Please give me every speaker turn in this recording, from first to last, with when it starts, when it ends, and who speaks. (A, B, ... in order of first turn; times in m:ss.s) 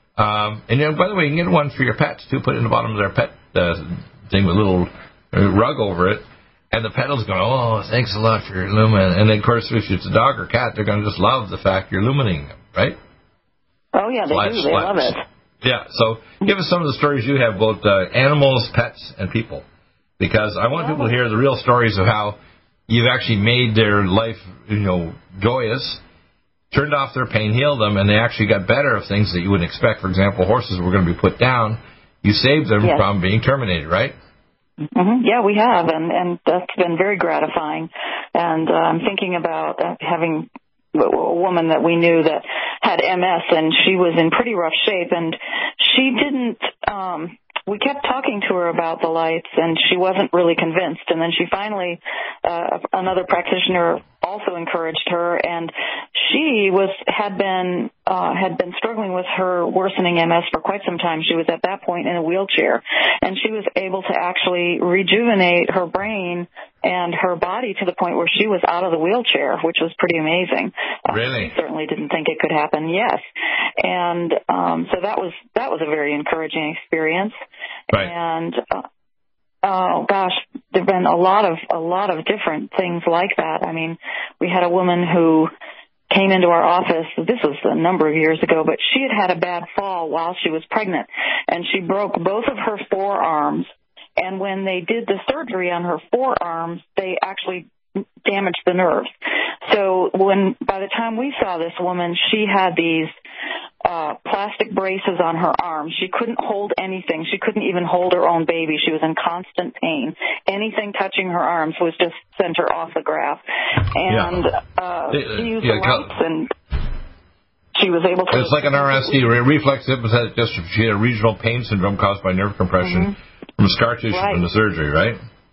0:00.2-0:13.0 A
0:14.0-0:15.2 B
0:14.3-0:19.6 A
0:20.2-0:26.0 A
0:20.7-0:21.1 B
0:26.7-0:34.2 A
0:35.0-1:13.2 B
1:11.1-1:11.5 A
1:13.8-1:17.3 B
1:17.9-1:18.8 B
1:19.6-1:25.5 B
1:26.1-1:37.7 B
1:38.2-1:39.1 B
1:39.7-1:43.1 B
1:43.8-1:56.5 B
1:54.1-1:54.5 A
1:55.1-1:56.1 A
1:57.8-1:59.2 B
1:58.3-2:05.2 A
2:02.8-2:03.2 B
2:04.1-2:04.4 B